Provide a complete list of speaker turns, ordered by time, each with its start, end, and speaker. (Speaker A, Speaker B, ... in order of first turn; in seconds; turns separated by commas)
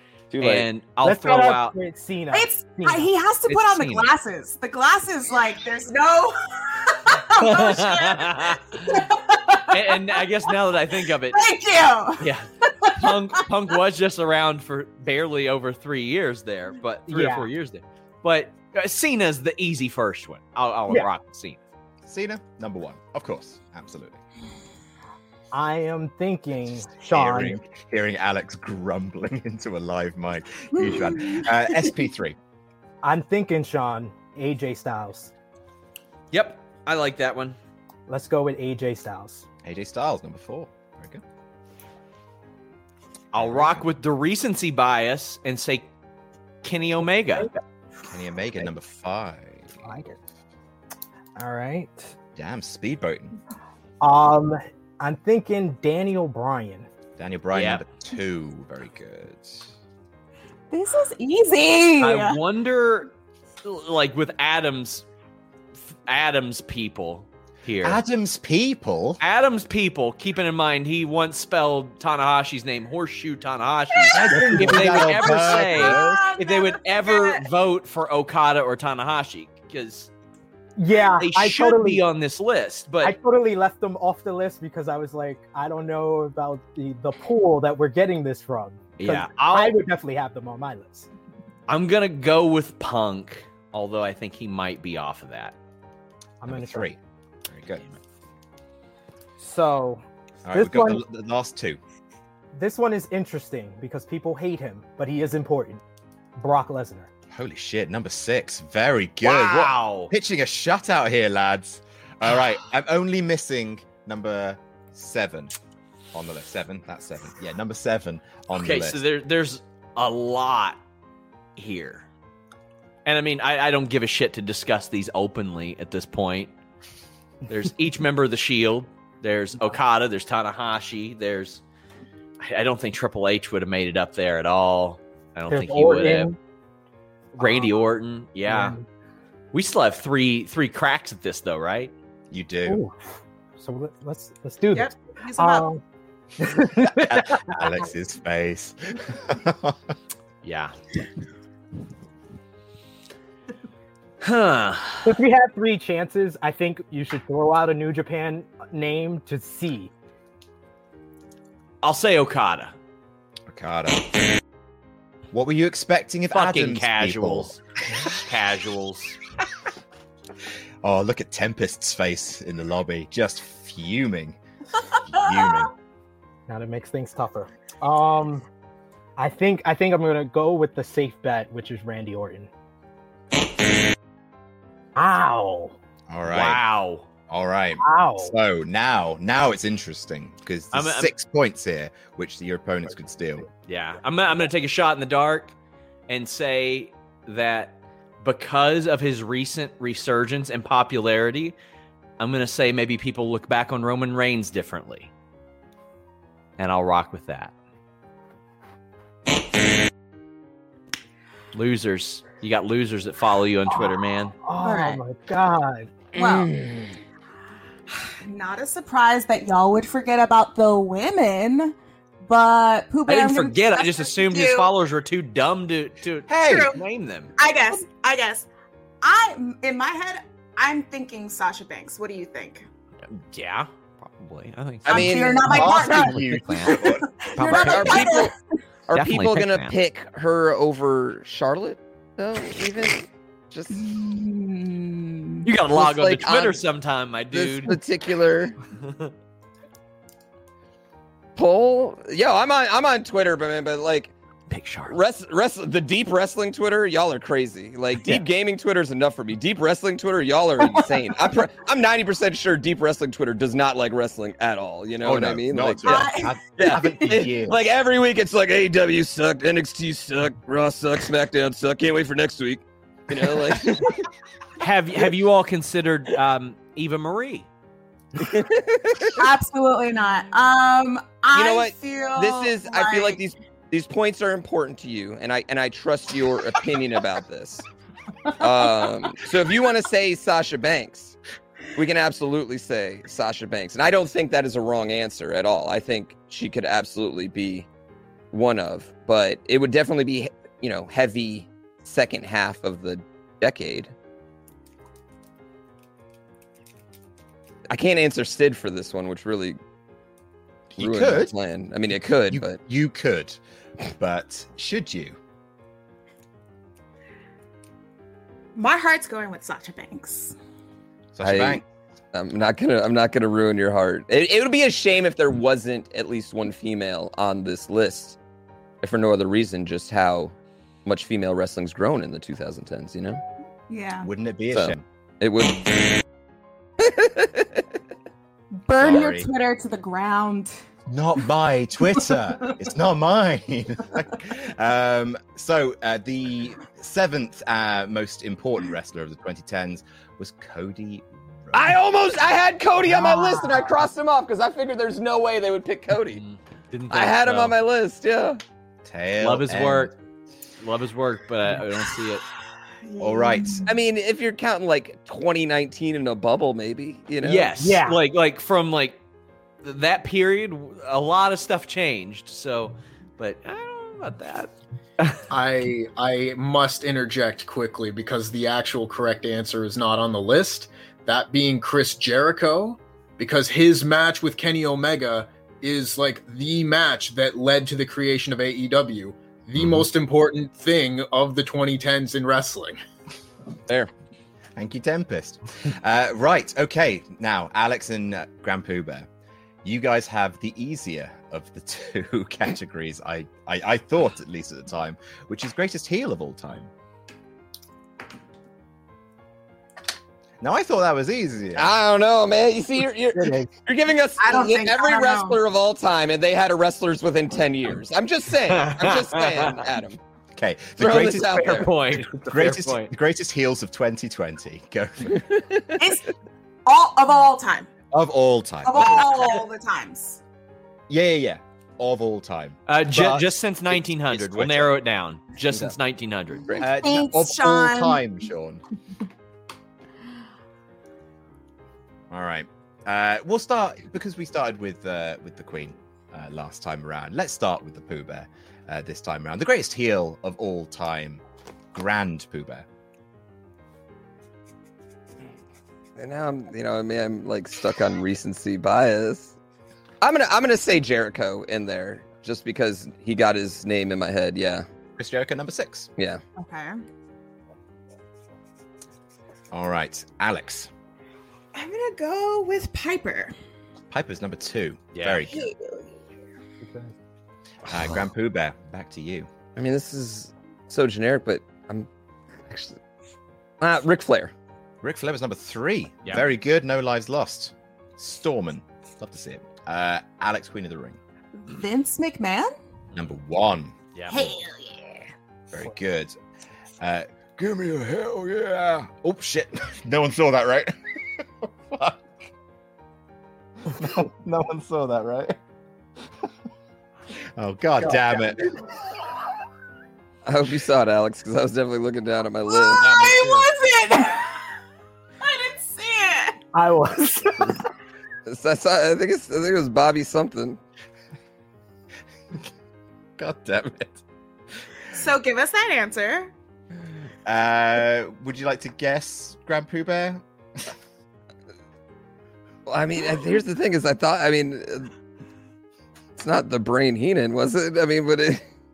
Speaker A: 0.3-0.7, Speaker B: 0.4-1.8, Speaker C: 1.0-3.1, Speaker D: 2.3-10.2, Speaker B: 3.5-4.1, Speaker B: 7.4-9.0, Speaker B: 9.7-11.4, Speaker D: 11.3-12.3, Speaker B: 12.2-21.6, Speaker D: 12.8-13.1, Speaker C: 17.1-17.5, Speaker E: 22.0-24.2, Speaker C: 25.5-27.6, Speaker E: 27.0-32.4, Speaker D: 30.9-31.4, Speaker C: 33.0-35.3, Speaker B: 36.3-37.6, Speaker C: 38.1-39.5, Speaker E: 39.6-41.2, Speaker B: 43.3-45.9, Speaker E: 43.4-43.9, Speaker B: 46.6-47.5, Speaker E: 48.1-49.8, Speaker C: 49.8-50.2, Speaker C: 51.4-52.1, Speaker E: 52.4-53.4, Speaker C: 54.0-56.9, Speaker E: 57.2-59.7, Speaker B: 57.5-57.8, Speaker D: 60.7-62.4, Speaker B: 62.0-63.1, Speaker B: 63.6-65.0, Speaker B: 66.1-68.0, Speaker E: 67.8-69.2, Speaker B: 69.2-80.1, Speaker E: 74.1-76.3, Speaker C: 74.2-75.7, Speaker D: 75.7-77.4, Speaker C: 80.8-82.0, Speaker B: 81.2-83.2, Speaker C: 83.0-91.1, Speaker B: 89.0-89.8, Speaker B: 91.7-95.5, Speaker C: 96.4-96.9, Speaker E: 96.5-97.8, Speaker C: 99.4-101.0, Speaker E: 100.5-101.8, Speaker C: 102.5-105.8, Speaker C: 106.4-107.1, Speaker E: 107.3-115.5, Speaker B: 109.2-110.1, Speaker E: 116.1-119.0, Speaker B: 118.5-120.8, Speaker B: 121.6-122.1, Speaker B: 123.1-126.5, Speaker B: 127.5-131.6, Speaker B: 132.4-136.3, Speaker C: 135.5-136.4, Speaker C: 137.3-137.7, Speaker B: 137.4-138.8, Speaker C: 138.5-138.8, Speaker B: 139.5-141.9, Speaker E: 142.3-142.8, Speaker C: 142.7-143.0, Speaker C: 143.6-145.8, Speaker D: 144.7-145.7, Speaker C: 146.4-147.6, Speaker E: 147.1-149.8, Speaker B: 150.4-150.7, Speaker B: 154.2-155.2, Speaker C: 155.1-159.9, Speaker B: 161.8-162.7, Speaker E: 163.5-164.0, Speaker E: 165.3-167.5, Speaker B: 166.3-167.6, Speaker B: 168.1-169.2, Speaker E: 170.8-174.4, Speaker E: 175.1-175.7, Speaker C: 176.5-178.5, Speaker C: 179.2-182.5, Speaker C: 185.0-185.8, Speaker E: 186.1-186.6, Speaker B: 186.3-187.1, Speaker E: 187.3-193.5, Speaker C: 187.8-188.3, Speaker B: 190.7-191.1, Speaker B: 193.7-195.5, Speaker B: 196.1-201.6, Speaker B: 202.2-205.1, Speaker B: 206.6-207.5, Speaker B: 211.5-214.4, Speaker C: 214.4-215.9, Speaker D: 214.6-215.0, Speaker D: 216.2-216.5, Speaker A: 216.2-216.9, Speaker D: 218.2-224.7, Speaker B: 223.1-227.3, Speaker E: 226.3-226.7, Speaker D: 226.4-226.8, Speaker D: 227.4-228.5, Speaker D: 229.0-232.7, Speaker B: 233.1-238.2, Speaker A: 234.9-235.5, Speaker D: 234.9-238.3, Speaker E: 235.2-237.1, Speaker A: 237.4-238.3, Speaker A: 238.9-243.8, Speaker B: 238.9-239.8, Speaker D: 243.7-245.5, Speaker B: 245.4-247.8, Speaker A: 245.7-246.6, Speaker A: 247.3-248.6, Speaker B: 248.8-249.1, Speaker A: 251.4-254.2, Speaker B: 254.5-255.0, Speaker A: 254.9-273.9, Speaker E: 265.0-267.6, Speaker D: 265.8-267.3, Speaker B: 274.6-277.5, Speaker A: 278.2-279.1, Speaker D: 279.2-283.2, Speaker A: 281.3-287.6, Speaker A: 288.4-291.2, Speaker A: 291.8-297.7, Speaker A: 298.3-303.9, Speaker A: 307.7-309.6, Speaker E: 310.8-311.3, Speaker A: 310.8-312.6, Speaker E: 312.3-315.2, Speaker D: 318.6-320.4, Speaker E: 321.1-321.6, Speaker A: 321.2-328.2, Speaker A: 328.8-330.3, Speaker A: 330.9-333.2, Speaker D: 333.7-334.1, Speaker E: 334.0-334.9, Speaker A: 334.5-335.9, Speaker A: 336.8-337.6, Speaker D: 338.6-340.6, Speaker E: 338.8-339.3, Speaker E: 340.9-351.8, Speaker A: 351.5-356.2, Speaker B: 356.1-357.6, Speaker A: 356.9-358.4, Speaker E: 358.8-359.9, Speaker B: 359.2-359.9, Speaker B: 360.6-362.2, Speaker D: 362.9-363.7, Speaker E: 363.0-363.7, Speaker A: 363.7-367.5, Speaker B: 367.2-369.0, Speaker C: 367.6-368.0, Speaker B: 369.6-375.2, Speaker F: 375.3-392.8, Speaker E: 394.6-399.1, Speaker E: 399.6-406.7, Speaker E: 410.4-411.7, Speaker A: 411.6-420.0, Speaker D: 414.2-415.4, Speaker B: 418.5-419.6, Speaker E: 420.4-421.7, Speaker A: 420.8-421.7, Speaker B: 421.2-422.9, Speaker E: 422.2-425.3, Speaker A: 425.3-425.6, Speaker D: 425.8-426.1, Speaker D: 426.7-427.7, Speaker E: 427.9-429.4, Speaker D: 428.6-430.2, Speaker E: 430.9-434.8, Speaker B: 432.7-436.6, Speaker D: 436.6-438.0, Speaker E: 436.6-438.6, Speaker E: 442.1-451.2, Speaker E: 451.7-452.7, Speaker A: 456.0-459.4, Speaker A: 460.0-464.6, Speaker E: 465.0-465.9, Speaker D: 466.4-466.8, Speaker E: 469.5-470.7, Speaker D: 471.5-473.3, Speaker E: 473.9-475.4, Speaker B: 474.9-475.2, Speaker D: 475.3-476.0, Speaker C: 476.6-476.9, Speaker E: 477.7-479.3, Speaker A: 479.6-481.9, Speaker A: 482.5-482.8, Speaker A: 483.6-484.3, Speaker E: 484.8-491.0, Speaker D: 491.4-492.5, Speaker E: 492.9-493.8, Speaker B: 493.9-494.3, Speaker D: 494.1-495.1, Speaker E: 495.5-496.2, Speaker E: 496.8-502.0, Speaker E: 503.7-505.4, Speaker E: 507.4-508.5, Speaker A: 510.3-513.0, Speaker D: 512.5-514.4, Speaker E: 512.9-513.4, Speaker D: 515.2-516.4, Speaker C: 516.5-517.5, Speaker A: 518.3-520.6, Speaker E: 523.2-524.0, Speaker D: 524.9-526.3, Speaker E: 527.2-530.2, Speaker A: 532.7-534.9, Speaker A: 536.2-538.4